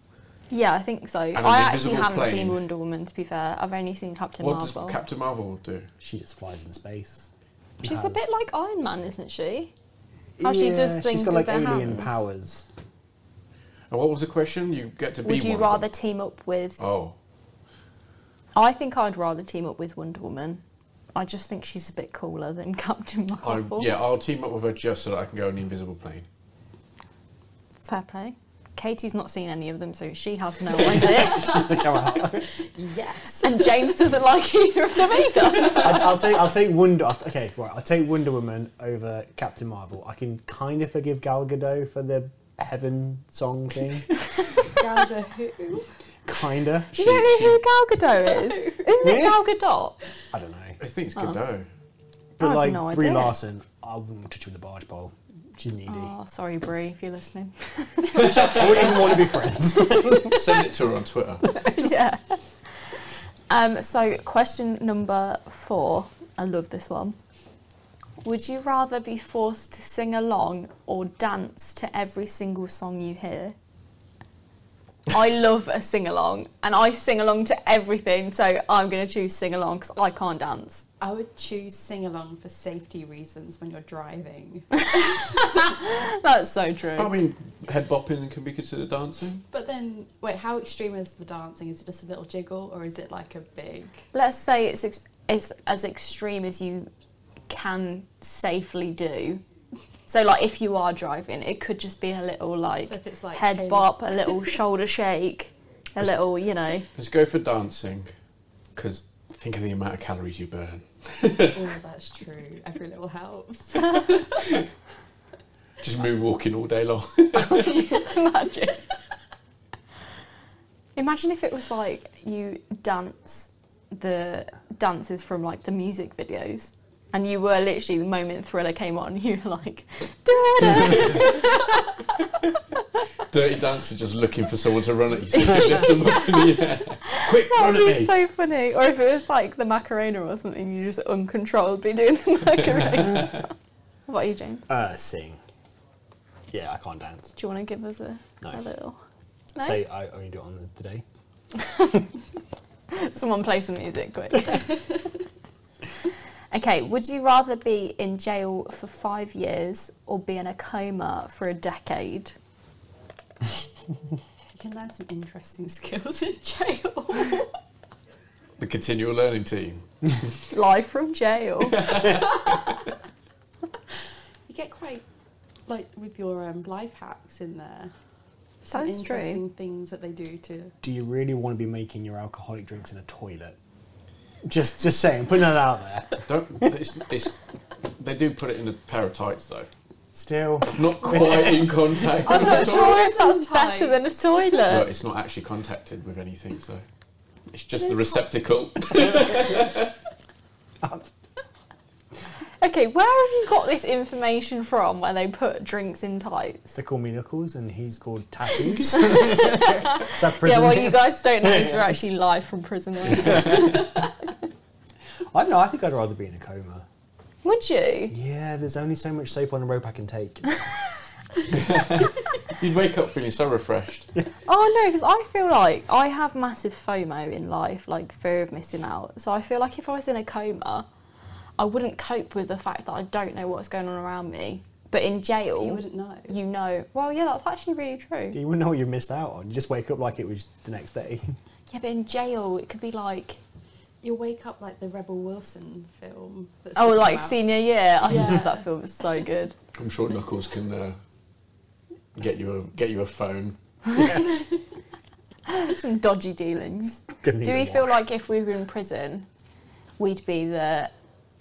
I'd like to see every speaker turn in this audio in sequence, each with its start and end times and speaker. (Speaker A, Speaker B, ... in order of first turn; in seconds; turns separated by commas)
Speaker A: 0.5-5.0, Speaker B: 1.3-2.6, Speaker B: 4.4-5.9, Speaker C: 6.0-7.3, Speaker C: 7.8-8.3, Speaker A: 7.8-9.7, Speaker C: 10.4-12.7, Speaker A: 10.4-12.2, Speaker B: 13.9-15.9, Speaker A: 15.2-16.8, Speaker B: 16.8-17.1, Speaker A: 18.5-20.6, Speaker A: 21.1-23.9, Speaker B: 23.4-26.2, Speaker A: 27.9-31.5, Speaker C: 30.8-32.5, Speaker D: 32.7-33.9, Speaker A: 33.4-36.1, Speaker D: 35.1-35.9, Speaker C: 35.8-44.1, Speaker D: 44.7-45.9, Speaker C: 46.2-47.2, Speaker A: 46.9-50.0, Speaker B: 46.9-47.6, Speaker D: 48.2-48.9, Speaker C: 49.0-49.4, Speaker C: 50.3-50.8, Speaker B: 50.8-51.7, Speaker C: 52.4-56.1, Speaker A: 52.4-53.4, Speaker A: 55.9-58.6, Speaker B: 58.1-59.1, Speaker C: 58.2-60.7, Speaker B: 60.1-61.5, Speaker C: 61.4-62.0, Speaker A: 61.8-62.8, Speaker A: 63.5-67.2, Speaker A: 68.2-73.5, Speaker A: 75.1-80.8, Speaker D: 81.0-84.9, Speaker A: 84.9-87.1, Speaker B: 87.0-89.4, Speaker D: 89.5-94.0, Speaker A: 94.1-96.9, Speaker A: 97.5-99.4, Speaker A: 100.1-106.9, Speaker D: 102.8-103.9, Speaker B: 106.9-108.1, Speaker B: 108.7-111.6, Speaker D: 111.5-114.6, Speaker B: 115.8-117.8, Speaker A: 117.3-118.8, Speaker A: 121.0-132.0, Speaker B: 133.3-138.1, Speaker A: 137.1-143.5, Speaker A: 144.1-144.7, Speaker C: 144.7-145.4, Speaker C: 146.5-147.3, Speaker A: 147.3-149.0, Speaker C: 149.6-151.0, Speaker A: 151.6-152.0, Speaker A: 152.9-154.8, Speaker A: 156.5-162.3, Speaker D: 164.5-167.5, Speaker B: 168.6-169.8, Speaker A: 170.5-172.2, Speaker B: 171.7-172.5, Speaker D: 174.5-175.0, Speaker D: 175.7-177.9, Speaker D: 178.6-180.7, Speaker A: 178.7-179.4, Speaker C: 180.8-183.6, Speaker C: 184.4-186.7, Speaker B: 186.2-187.3, Speaker B: 187.9-189.7, Speaker C: 190.1-191.8, Speaker B: 190.7-193.1, Speaker D: 192.2-193.9, Speaker A: 192.2-194.9, Speaker B: 194.7-196.8, Speaker B: 197.5-199.9, Speaker D: 197.8-198.2, Speaker A: 202.6-206.8, Speaker C: 206.7-212.0, Speaker A: 208.8-213.8, Speaker C: 215.3-216.8, Speaker A: 217.4-218.1, Speaker C: 218.1-220.5, Speaker B: 221.5-224.1, Speaker A: 224.4-230.8, Speaker A: 231.6-238.4, Speaker D: 235.6-236.4, Speaker C: 238.3-241.3, Speaker A: 241.7-243.4, Speaker D: 244.0-247.4, Speaker A: 246.7-249.5, Speaker D: 248.1-248.6, Speaker B: 249.7-251.0, Speaker B: 252.2-254.4, Speaker D: 254.1-254.5, Speaker A: 255.4-259.3, Speaker C: 257.2-257.9, Speaker A: 260.0-260.9